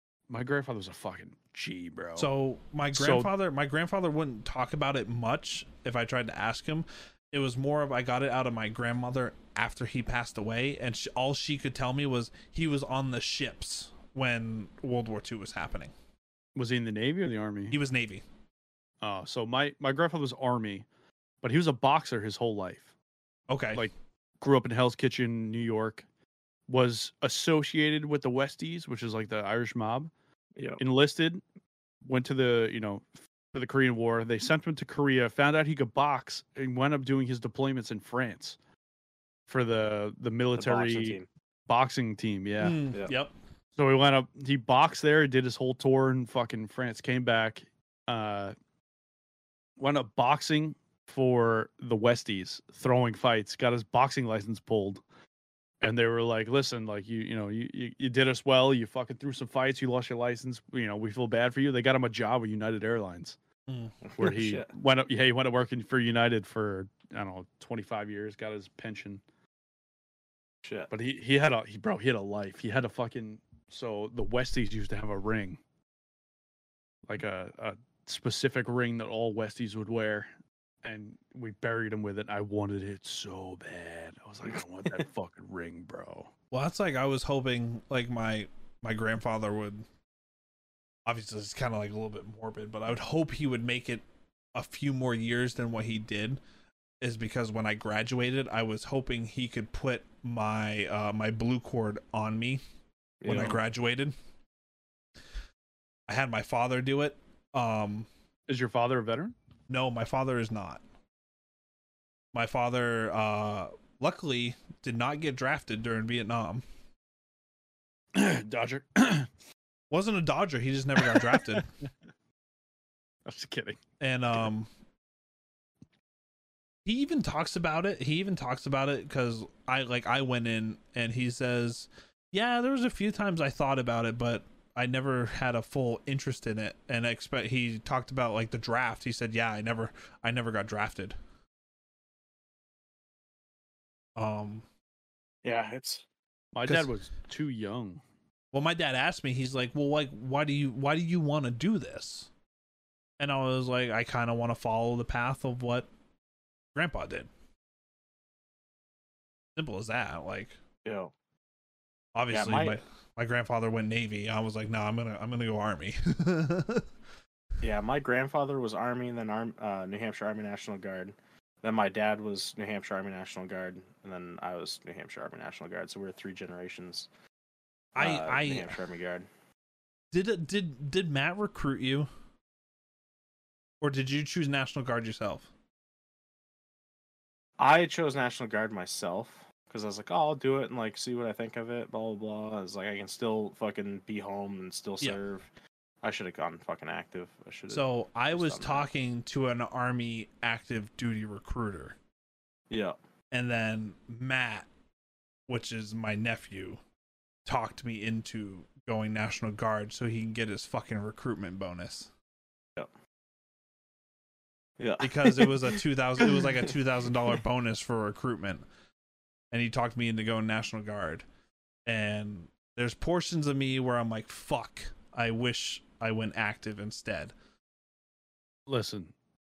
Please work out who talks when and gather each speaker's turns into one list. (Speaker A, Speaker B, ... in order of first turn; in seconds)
Speaker A: 0.3-2.3, 2.9-3.3, 16.6-17.8, 19.0-20.8, 21.4-22.9, 23.7-26.0, 26.7-30.1, 30.8-31.4, 32.0-38.5, 39.5-42.8, 43.8-48.5, 49.8-55.0, 55.8-63.4, 64.2-69.2, 70.9-75.6, 77.1-80.3, 80.8-86.3, 108.5-109.3, 118.1-119.3, 121.0-121.6, 123.2-123.8, 146.5-148.0, 228.7-229.1
Speaker B: 2.1-15.9, 17.7-18.2, 23.5-23.9, 42.6-43.3, 86.5-89.8, 91.0-96.4, 97.0-102.6, 103.2-104.1, 106.1-108.1, 109.7-110.8, 112.3-116.6, 119.9-121.7, 124.0-124.7, 126.8-141.2, 144.2-144.6, 148.5-152.3, 153.2-155.9, 156.7-157.3, 159.6-160.6, 162.1-166.9, 177.9-178.7, 180.1-182.1, 183.8-185.5, 197.7-201.9, 203.3-204.7, 205.5-206.8, 207.4-212.1, 215.0-218.6, 219.5-221.2, 221.8-227.3
Speaker C: 40.5-41.2, 64.0-64.7, 70.6-70.9, 103.2-103.6, 145.4-146.0, 160.8-161.1, 162.3-162.8, 167.6-177.1, 177.9-179.3, 187.6-195.4, 196.0-198.9, 202.7-202.9, 214.8-215.8